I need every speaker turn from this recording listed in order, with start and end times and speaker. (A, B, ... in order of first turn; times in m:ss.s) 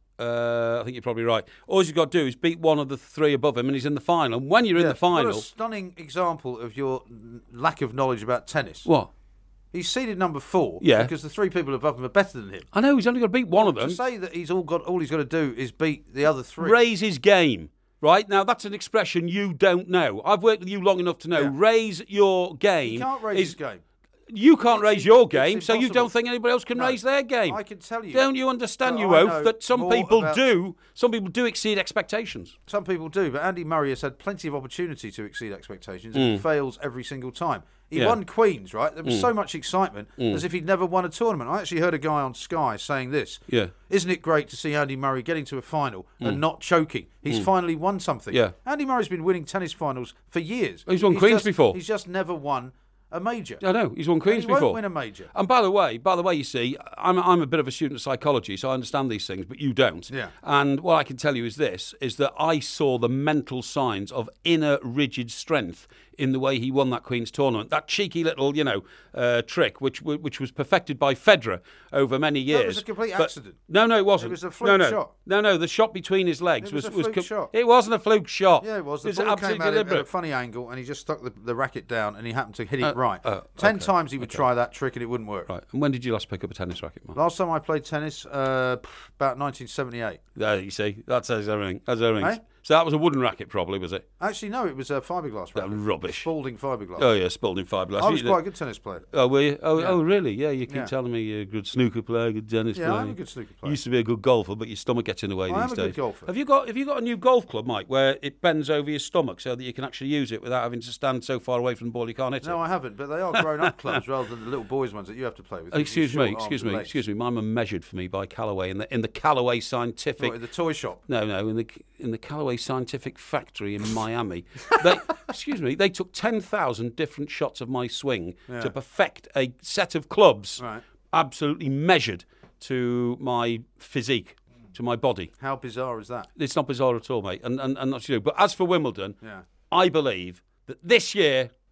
0:00.2-0:05.5 A
0:04.7-0:08.9 B
0:09.7-0:12.7 B
0:10.8-0:11.1 A
0:12.7-0:14.0 A
0:13.6-0:16.8 B
0:16.6-0:23.6 A
0:22.8-0:23.8 B
0:24.3-0:27.6 A
0:24.6-0:26.1 B
0:26.8-0:28.3 B
0:28.1-0:32.6 A
0:28.8-0:30.4 B
0:32.7-0:53.6 B
0:36.1-0:36.4 A
0:40.2-0:40.4 A
0:50.9-0:51.8 A
0:53.6-0:54.8 A
0:54.3-0:55.3 B
0:55.3-1:20.1 A
1:12.5-1:13.6 B
1:14.2-1:15.1 B
1:16.6-1:17.5 B
1:18.6-1:25.5 B
1:22.8-1:24.5 A
1:25.5-1:27.2 A
1:27.2-1:30.2 B
1:30.4-1:34.0 A
1:34.2-1:37.1 B
1:35.6-1:36.3 A
1:37.0-1:38.4 A
1:38.0-1:39.0 B
1:39.1-1:52.6 A
1:39.8-1:40.0 B
1:42.8-1:43.8 B
1:45.5-1:46.3 B
1:52.4-1:57.0 B
1:53.4-1:54.0 A
1:55.7-2:00.4 A
2:00.2-2:01.0 B
2:01.1-2:15.3 A
2:08.5-2:08.7 B
2:10.6-2:10.8 B
2:15.4-2:16.3 B
2:16.4-2:19.2 A
2:19.7-2:21.5 A